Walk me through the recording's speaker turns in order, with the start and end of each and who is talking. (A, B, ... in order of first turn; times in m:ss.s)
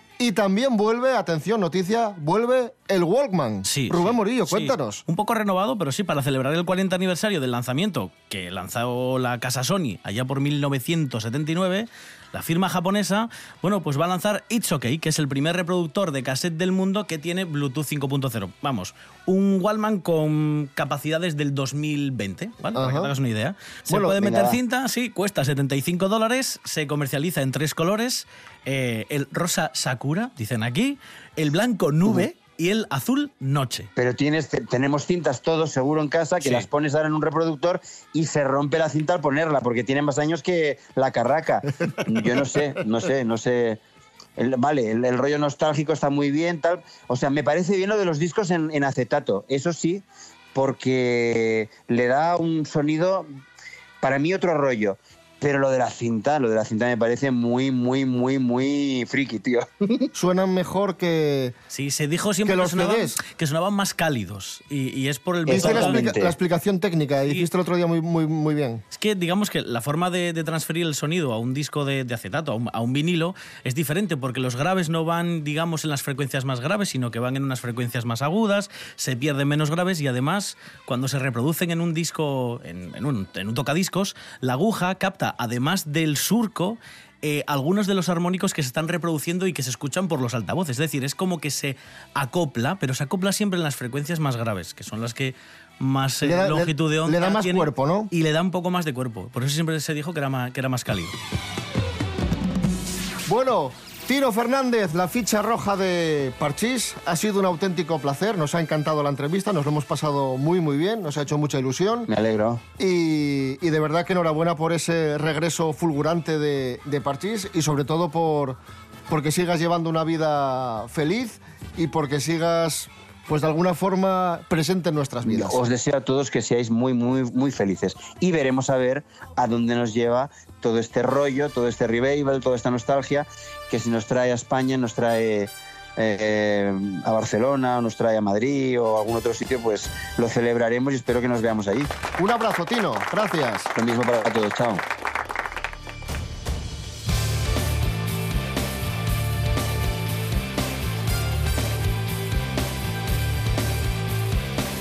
0:00.2-0:05.0 A
0:03.7-0:33.9 B
0:22.7-0:23.1 A
0:23.9-0:24.4 A
0:24.2-0:24.6 C
0:34.0-0:43.8 C
0:44.4-0:53.3 C
0:54.0-1:00.1 C
1:00.1-1:01.6 A
1:01.7-1:06.1 B
1:02.4-1:03.2 A
1:05.5-1:06.3 C
1:05.5-1:08.8 A
1:08.9-1:41.2 B
1:36.2-1:38.1 A
1:43.3-1:52.1 A
1:52.1-1:52.6 C
1:52.8-2:05.6 A
2:05.2-2:21.9 C
2:22.2-2:23.7 A
2:23.8-2:24.8 C